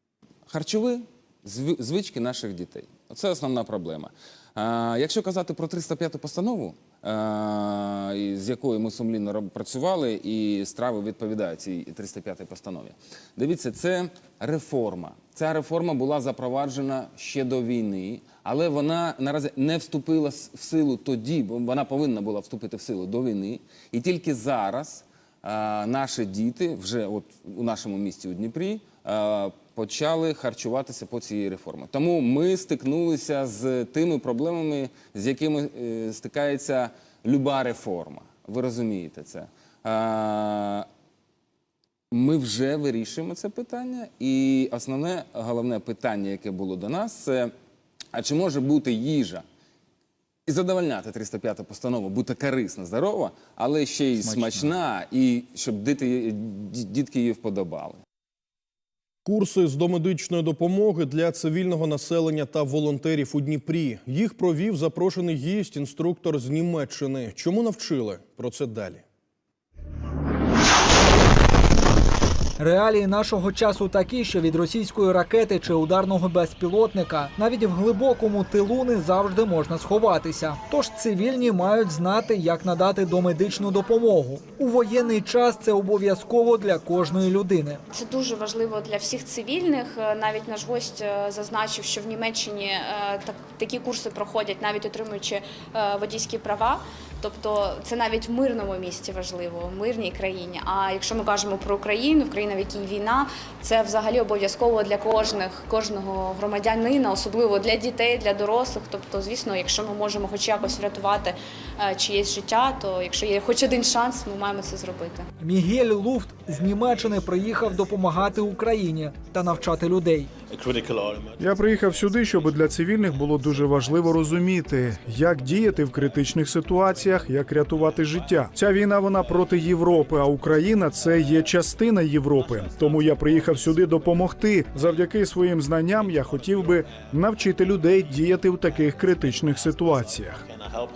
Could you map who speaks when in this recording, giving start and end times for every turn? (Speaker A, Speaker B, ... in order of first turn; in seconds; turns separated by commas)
Speaker A: 0.5-40.9, Speaker A: 42.1-47.5, Speaker A: 48.1-49.4, Speaker A: 50.5-58.0, Speaker B: 59.2-69.0, Speaker C: 72.6-87.8, Speaker D: 87.9-115.2, Speaker C: 115.4-120.3, Speaker E: 121.5-140.3